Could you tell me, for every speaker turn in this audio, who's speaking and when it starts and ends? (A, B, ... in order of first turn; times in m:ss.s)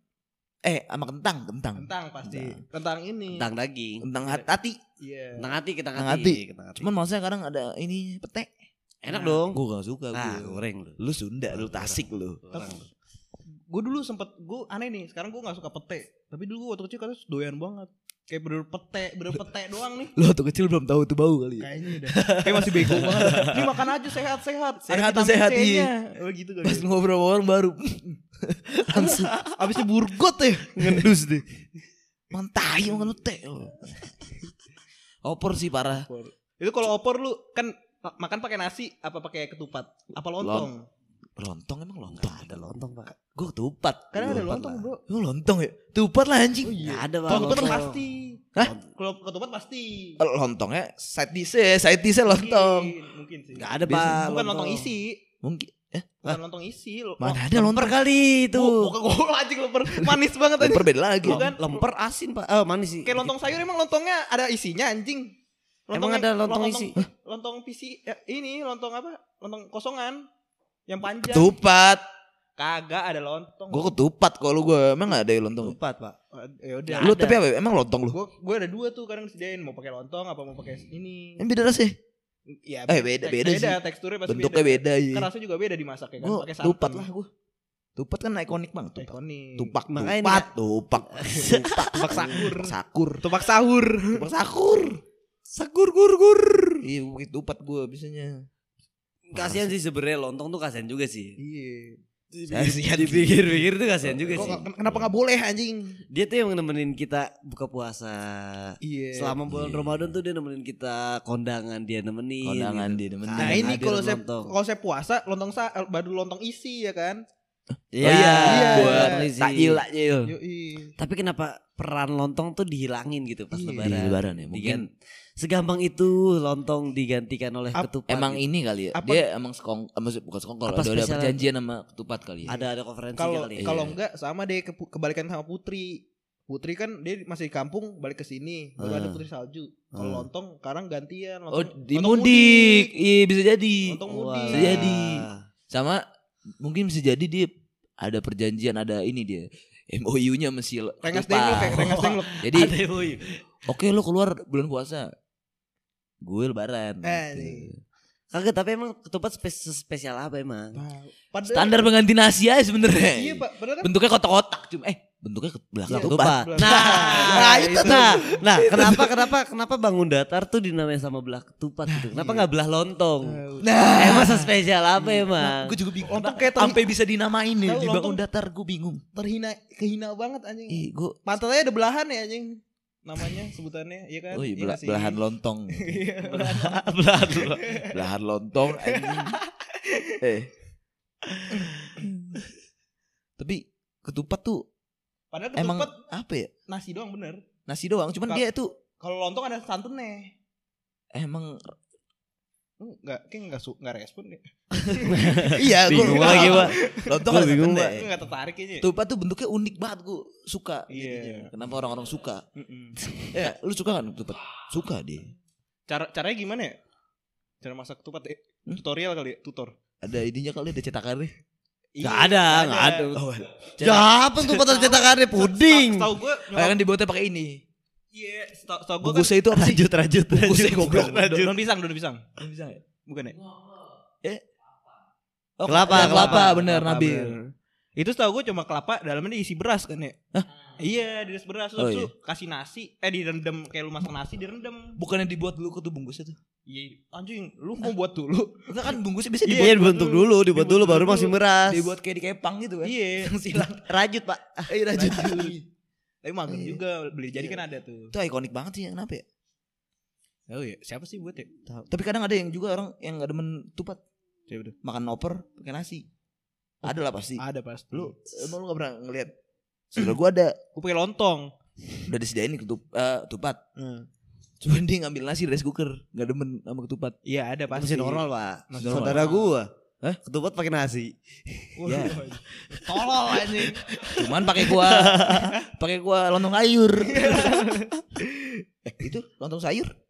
0:00.6-0:02.6 A
0:01.8-0:03.4 B
0:03.3-0:04.1 C
0:04.0-0:04.8 A
0:05.0-0:05.5 B
0:05.4-0:06.9 C
0:06.0-0:08.5 A
0:09.0-0:09.6 C
0:09.1-0:09.4 B
0:09.5-0:12.4 A
0:10.1-0:11.0 C
0:11.5-0:12.9 C
0:13.7-0:20.1 B
0:20.2-0:23.8 A
0:21.6-0:26.9 B
0:24.8-0:25.9 A
0:26.6-0:29.9 A
0:28.9-0:31.3 B
0:30.8-0:31.4 C
0:30.8-0:31.1 A
0:32.3-0:34.0 A
0:35.2-0:36.1 A
0:36.0-0:40.8 B
0:40.4-0:40.7 A
0:41.4-0:47.9 A
0:42.1-0:43.1 C
0:44.1-0:45.0 B
0:44.2-0:44.9 C
0:46.7-0:50.2 B
0:46.8-0:48.0 C
0:48.6-0:48.8 C
0:50.2-0:52.9 A
0:52.3-0:55.2 B
0:53.6-0:54.9 C
0:53.9-0:54.2 A
0:55.4-0:56.3 A
0:56.2-0:57.6 B
0:57.2-0:58.0 A
0:57.5-0:58.9 C
0:58.5-1:01.8 B
0:59.9-1:01.5 A
1:01.3-1:03.3 C
1:03.1-1:05.3 B
1:05.9-1:10.2 B
1:05.9-1:07.0 C
1:10.9-1:11.5 B
1:11.3-1:12.0 A
1:12.6-1:13.9 B
1:13.7-1:15.8 A
1:15.6-1:16.2 C
1:16.3-1:17.4 B
1:16.9-1:17.4 C
1:17.0-1:18.2 A
1:18.1-1:21.4 B
1:21.4-1:22.0 A
1:22.5-1:27.1 B
1:22.9-1:25.3 A
1:26.2-1:27.3 A
1:28.0-1:33.3 A
1:29.0-1:29.8 B
1:29.9-1:30.5 C
1:31.0-1:32.4 C
1:31.8-1:34.3 B
1:34.1-1:35.0 A
1:35.5-1:36.9 C
1:36.8-1:38.4 A
1:39.3-1:41.4 C
1:39.3-1:39.7 A
1:41.4-1:42.0 B
1:42.3-1:44.7 C
1:42.5-1:45.0 A
1:44.3-1:46.0 B
1:46.1-1:54.5 C
1:48.8-1:49.4 B
1:49.5-1:50.1 A
1:52.4-1:54.0 A
1:53.4-1:57.2 B
1:57.9-1:59.8 C
1:58.0-2:00.4 A
1:58.4-1:59.2 B
2:00.2-2:01.0 B
2:01.0-2:04.9 C
2:03.5-2:03.9 B
2:03.8-2:04.9 A
2:05.4-2:08.4 C
2:08.1-2:12.5 A
2:09.0-2:09.2 B
2:10.7-2:11.4 C
2:12.5-2:13.8 C
2:13.2-2:22.9 B
2:13.6-2:14.0 A
2:18.8-2:19.2 C
2:19.9-2:20.2 C
2:21.5-2:26.0 A
2:23.9-2:24.9 B
2:24.1-2:25.5 C
2:26.6-2:32.8 A
2:31.0-2:32.4 B
2:31.6-2:33.4 C
2:33.7-2:35.1 A
2:36.2-2:37.8 A
2:37.0-2:37.7 B
2:38.3-2:40.8 C
2:40.8-2:41.9 B
2:41.4-2:49.3 A
2:43.0-2:43.9 B
2:45.9-2:53.4 C
2:45.9-2:48.4 B
2:51.9-2:52.4 A
2:53.2-2:53.7 B
2:53.6-2:59.0 A
2:54.0-2:55.8 C
2:56.0-2:56.8 B
2:57.7-2:58.2 B
2:59.2-3:05.2 B
3:00.7-3:01.2 A
3:04.3-3:06.1 A
3:05.7-3:06.8 B
3:06.3-3:07.7 C
3:07.4-3:08.0 B
3:07.9-3:09.4 A
3:08.7-3:10.2 B
3:10.2-3:10.5 A
3:11.5-3:12.1 B
3:12.0-3:12.4 A
3:13.4-3:14.7 A
3:15.3-3:15.9 B
3:15.6-3:16.5 A
3:16.7-3:17.4 B
3:17.7-3:18.7 A
3:19.0-3:20.3 B
3:21.1-3:21.8 A
3:22.8-3:27.2 B
3:24.9-3:28.1 A
3:25.1-3:28.0 C
3:27.8-3:28.9 B
3:28.8-3:32.4 A
3:30.9-3:31.5 B
3:32.6-3:33.0 B
3:33.3-3:35.3 A
3:35.9-3:36.8 B
3:37.6-3:39.7 B
3:40.0-3:41.3 A
3:42.0-3:43.1 B
3:42.0-3:43.2 C
3:43.1-3:44.6 A
3:43.8-3:46.1 C
3:44.6-3:46.8 B
3:46.5-3:47.6 A
3:48.1-3:49.3 B
3:49.0-3:51.5 A
3:49.5-3:51.5 C
3:51.1-3:52.2 B
3:52.4-3:52.8 A
3:53.1-3:53.4 B
3:55.6-3:57.4 A
3:55.7-3:56.6 C
3:55.8-4:00.2 B
4:00.8-4:05.0 B
4:01.8-4:02.1 A
4:05.0-4:06.4 A
4:06.7-4:08.8 B
4:08.7-4:09.8 A
4:09.5-4:11.9 C
4:09.5-4:11.4 B
4:11.7-4:13.8 A
4:12.8-4:13.7 B
4:13.8-4:14.7 C
4:14.7-4:15.6 A
4:14.9-4:15.6 B
4:16.2-4:18.1 B
4:16.5-4:16.8 A
4:18.1-4:19.2 A
4:20.5-4:21.5 B
4:21.9-4:24.0 A
4:24.5-4:24.8 B
4:24.8-4:26.1 A
4:26.8-4:29.3 A
4:27.4-4:28.2 B
4:29.9-4:30.6 A
4:30.8-4:31.5 B
4:32.1-4:33.6 A
4:33.8-4:34.1 B
4:34.6-4:37.2 A
4:37.2-4:39.5 B
4:37.7-4:39.7 C
4:38.8-4:39.3 A
4:40.2-4:42.1 C
4:41.8-4:44.1 B
4:41.8-4:42.3 A
4:43.9-4:45.5 C
4:44.1-4:47.8 A
4:47.0-4:48.6 B
4:48.8-4:49.9 A